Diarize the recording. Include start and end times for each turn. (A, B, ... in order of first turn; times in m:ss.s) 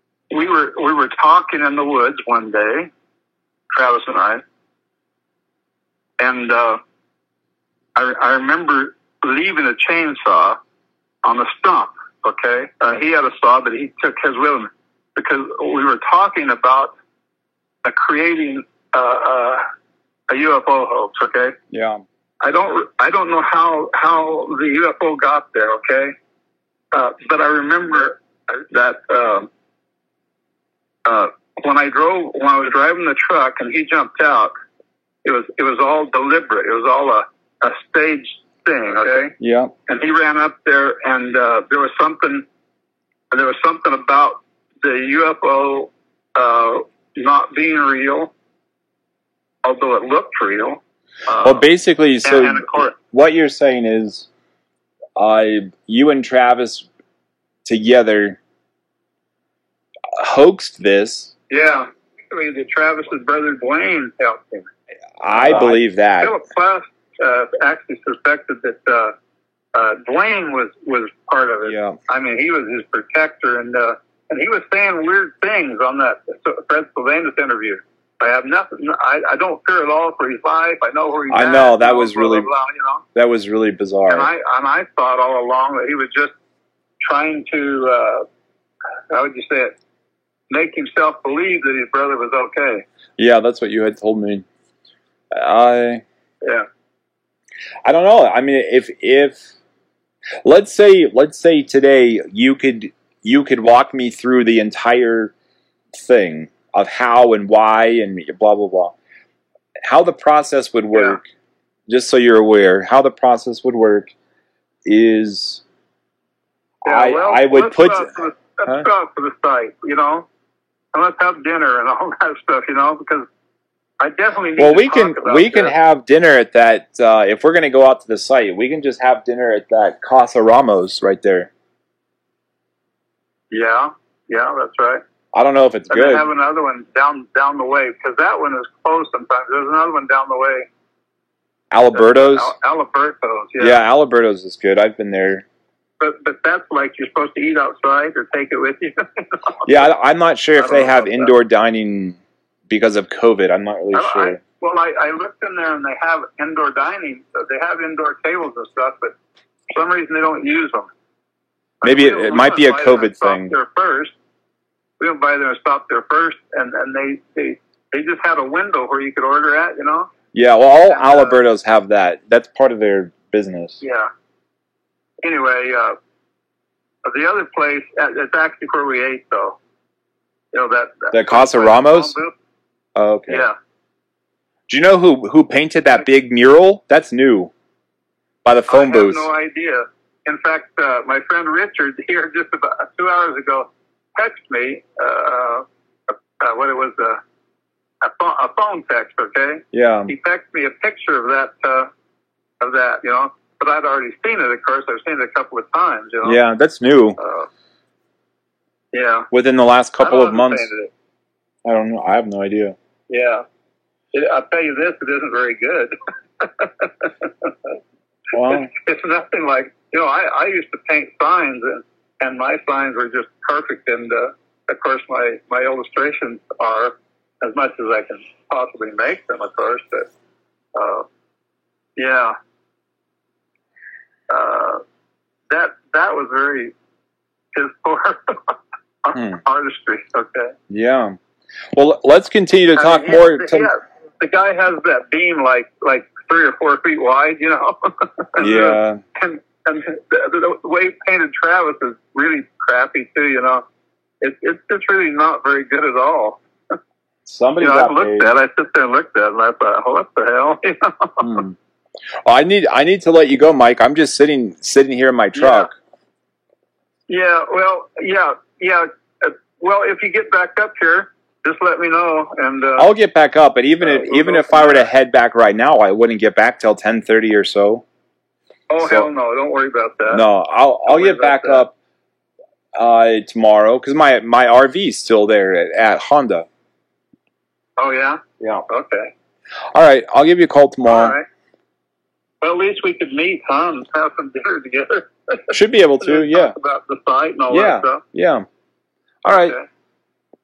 0:00.3-0:02.9 A
0:03.7-0:04.4 A
0:06.2-0:06.8 A
0:08.0-0:10.6 A
0:11.2-0:16.9 A
0:17.8-0:19.6 A
0:20.3-0:21.6 A
0:21.7-0:22.0 B
0:22.4-0:26.1 A
0:26.9-0:29.5 A
0:31.0-0:34.5 A
0:35.2-0:39.4 A
0:39.4-0:39.7 B
0:39.9-0:42.5 A
0:43.3-0:48.3 A
0:49.6-0:51.7 A
0:51.4-0:54.3 B
0:52.2-0:53.0 A
0:55.2-0:56.9 B
0:57.6-0:58.4 B
1:00.1-1:01.3 B
1:01.5-1:04.7 A
1:05.2-1:06.4 B
1:05.3-1:09.1 A
1:09.7-1:23.0 A
1:11.6-1:12.0 B
1:21.3-1:22.5 B
1:23.1-1:24.3 B
1:24.1-1:26.3 A
1:27.0-1:28.2 A
1:29.1-1:29.8 A
1:30.5-1:32.8 A
1:33.2-1:34.4 B
1:35.3-1:36.0 B
1:37.8-1:39.5 B
1:40.4-1:45.3 B
1:45.9-1:49.0 B
1:49.8-1:51.2 B
1:50.9-1:51.2 A
1:51.9-1:54.1 B
1:54.8-1:55.6 B
1:56.8-2:00.3 A
1:56.8-1:58.1 B
2:00.9-2:03.3 A
2:04.0-2:05.8 A
2:04.6-2:11.5 B
2:13.5-2:15.0 A
2:15.3-2:16.2 B
2:15.9-2:20.7 A
2:21.7-2:22.5 B
2:21.9-2:23.8 A
2:23.6-2:25.4 B
2:26.0-2:29.9 A
2:29.6-2:34.4 B
2:30.6-2:31.4 A
2:33.9-2:39.2 A
2:39.7-2:40.9 A
2:41.8-2:44.1 A
2:41.8-2:43.5 B
2:45.0-2:50.1 A
2:50.3-2:53.8 B
2:50.8-2:51.4 A
2:53.8-2:54.1 A
2:55.2-2:56.0 A
2:57.0-2:59.6 A
3:00.5-3:02.3 A
3:01.1-3:02.2 B
3:03.0-3:03.5 B
3:03.3-3:03.5 A
3:04.7-3:07.5 B
3:08.4-3:09.3 B
3:08.7-3:17.2 A
3:18.0-3:21.9 A
3:19.7-3:20.1 B
3:22.6-3:26.4 A
3:26.2-3:27.2 B
3:27.2-3:27.5 A
3:28.9-3:29.3 A
3:29.3-3:30.7 B
3:30.0-3:30.9 A
3:31.6-3:32.8 B
3:33.1-3:33.4 A
3:34.1-3:37.8 A
3:38.3-3:38.7 B
3:38.3-3:50.1 A
3:50.7-3:51.0 A
3:52.0-3:52.3 A
3:54.3-3:54.8 A
3:55.5-3:56.7 A
3:57.5-4:00.6 A
3:59.1-3:59.4 B
4:00.7-4:01.2 B
4:01.7-4:03.7 B
4:02.7-4:13.6 A
4:08.4-4:09.0 B
4:14.2-4:16.4 A
4:17.2-4:18.3 B
4:17.6-4:21.4 A
4:21.2-4:21.5 B
4:22.2-4:25.7 B
4:25.3-4:25.7 A
4:27.1-4:32.9 A
4:32.8-4:37.8 B
4:33.8-4:34.9 A
4:38.7-4:40.3 A
4:38.8-4:39.1 B
4:40.1-4:41.7 B
4:40.8-4:41.7 A
4:42.7-4:46.4 B
4:47.8-4:49.1 A
4:49.7-4:51.2 B
4:50.8-4:51.2 A
4:52.4-4:58.0 A
4:55.5-4:56.5 B
4:57.5-4:58.4 B
4:59.2-4:59.6 B
4:59.3-4:59.6 A